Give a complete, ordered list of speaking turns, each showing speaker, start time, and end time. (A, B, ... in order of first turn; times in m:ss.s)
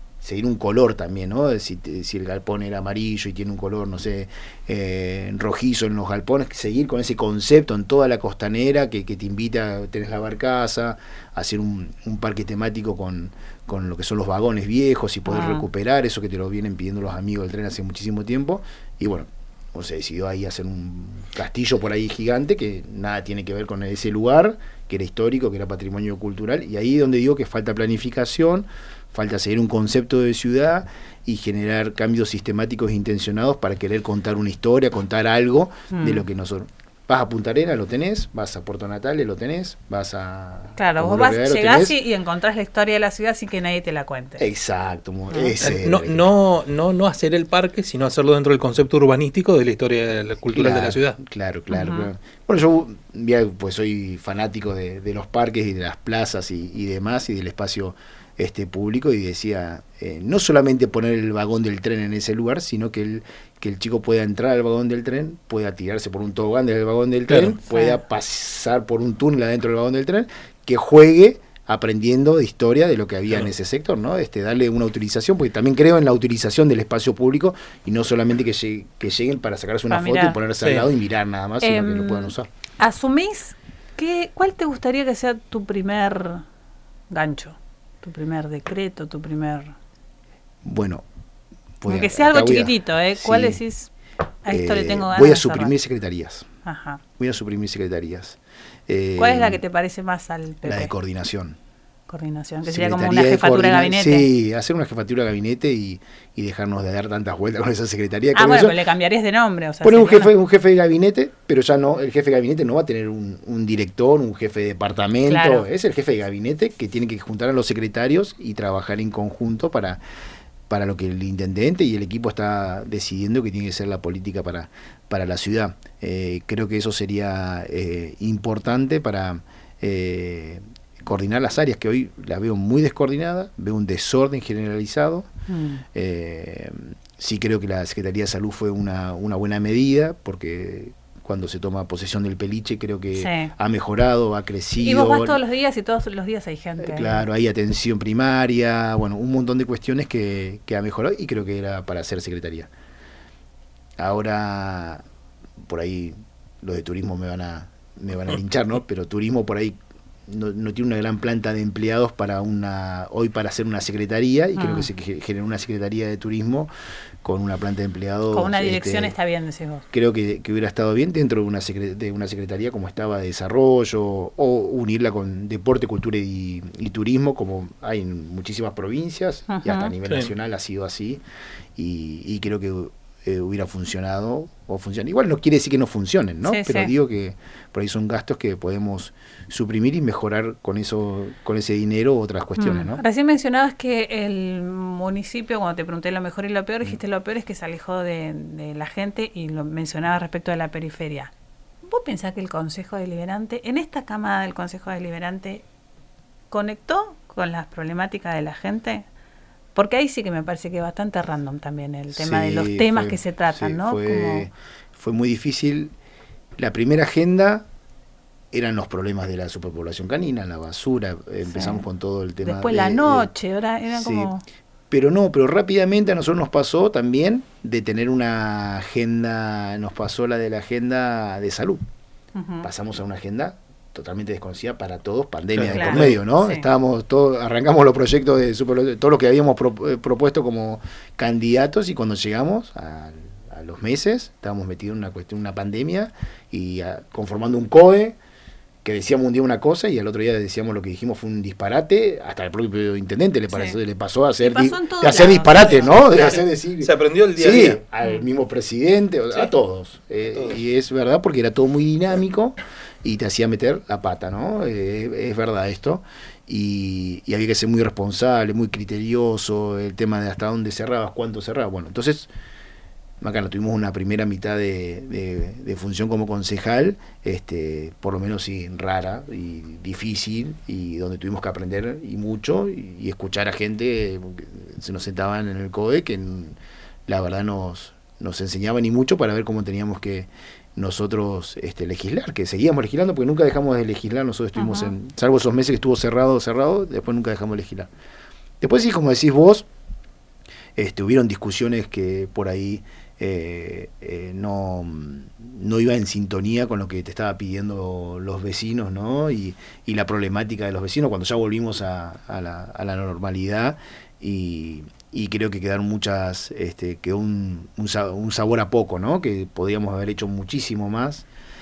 0:00.2-0:42.0 A
0:15.2-0:15.6 B
0:35.9-0:36.2 B
0:40.8-0:44.4 B
0:44.4-0:46.2 A
0:45.6-0:51.2 C
0:50.5-1:22.5 A
0:51.7-0:52.1 B
1:07.3-1:07.6 C
1:07.6-1:08.0 B
1:19.9-1:20.4 B
1:20.6-1:20.9 C
1:21.6-1:26.4 B
1:27.1-1:29.7 B
1:30.6-1:31.0 A
1:31.8-1:33.6 A
1:31.9-1:33.9 B
1:34.4-1:35.7 B
1:34.5-1:36.5 A
1:36.6-1:37.0 B
1:37.2-1:39.6 A
1:39.2-1:40.9 B
1:40.6-1:41.6 A
1:42.1-1:44.3 B
1:42.6-1:48.8 A
1:48.3-1:50.3 B
1:49.8-2:00.0 A
1:55.3-1:55.7 B
2:00.7-2:15.3 A
2:15.5-2:15.8 B
2:15.9-2:25.4 A
2:23.1-2:23.5 B
2:24.8-2:27.2 B
2:26.8-2:32.7 A
2:34.0-2:35.0 A
2:35.6-2:46.7 A
2:44.6-2:44.9 B
2:47.2-2:49.1 A
2:48.3-2:49.8 B
2:49.9-3:01.2 A
2:59.5-2:59.9 B
3:01.8-3:13.0 A
3:06.4-3:06.9 B
3:12.6-3:21.3 B
3:21.8-3:25.6 B
3:26.5-3:29.0 B
3:29.7-3:34.5 B
3:32.1-3:35.9 A
3:36.6-3:37.6 A
3:38.5-3:43.3 A
3:41.4-3:41.8 B
3:42.4-3:44.4 B
3:43.9-3:44.3 A
3:44.9-3:51.8 A
3:52.4-3:52.7 B
3:52.6-4:08.2 A
3:55.6-3:56.2 C
3:55.7-3:56.7 B
4:08.8-4:32.3 A
4:13.5-4:13.8 B
4:14.4-4:16.3 B
4:16.3-4:17.8 C
4:33.2-4:57.9 A
4:54.6-4:54.9 B
4:58.6-4:59.7 A
5:00.8-5:21.2 A